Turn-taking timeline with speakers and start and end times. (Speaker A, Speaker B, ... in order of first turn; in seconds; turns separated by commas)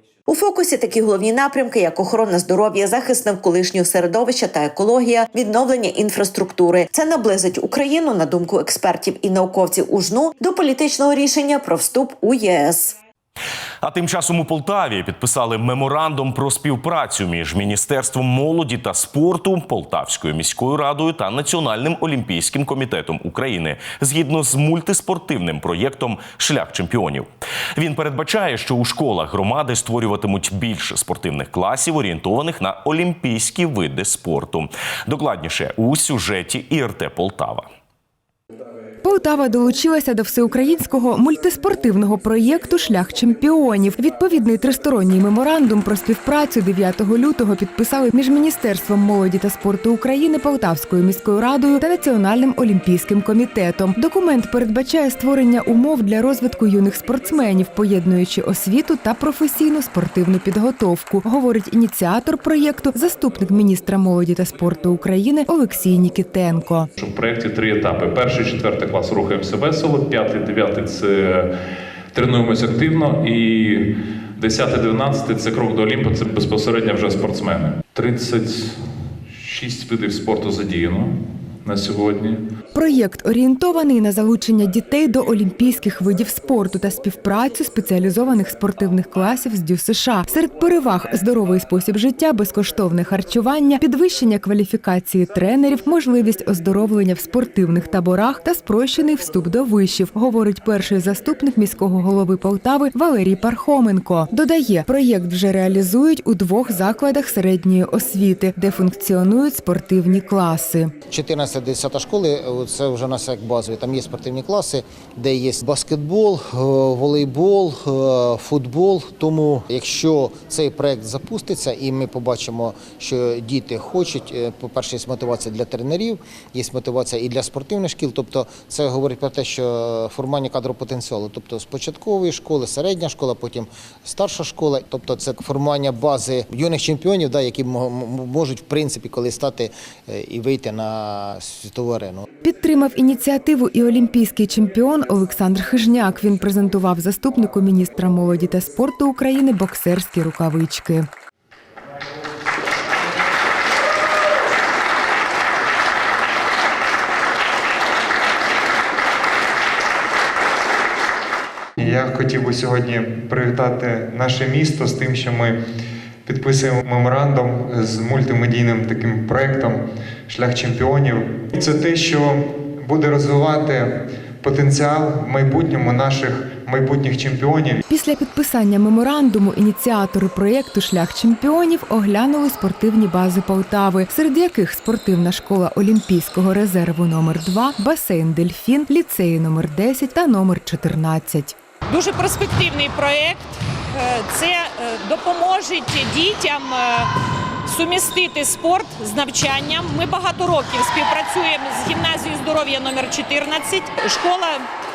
Speaker A: 0.3-12.9, Speaker B: 13.8-37.7, Speaker C: 39.0-66.9, Speaker D: 67.0-71.5, Speaker D: 72.1-82.4, Speaker C: 82.7-111.0, Speaker E: 111.1-142.2, Speaker C: 142.4-151.1, Speaker F: 161.8-165.6, Speaker F: 166.2-177.8, Speaker C: 177.9-191.6, Speaker G: 191.9-197.1, Speaker G: 197.7-204.6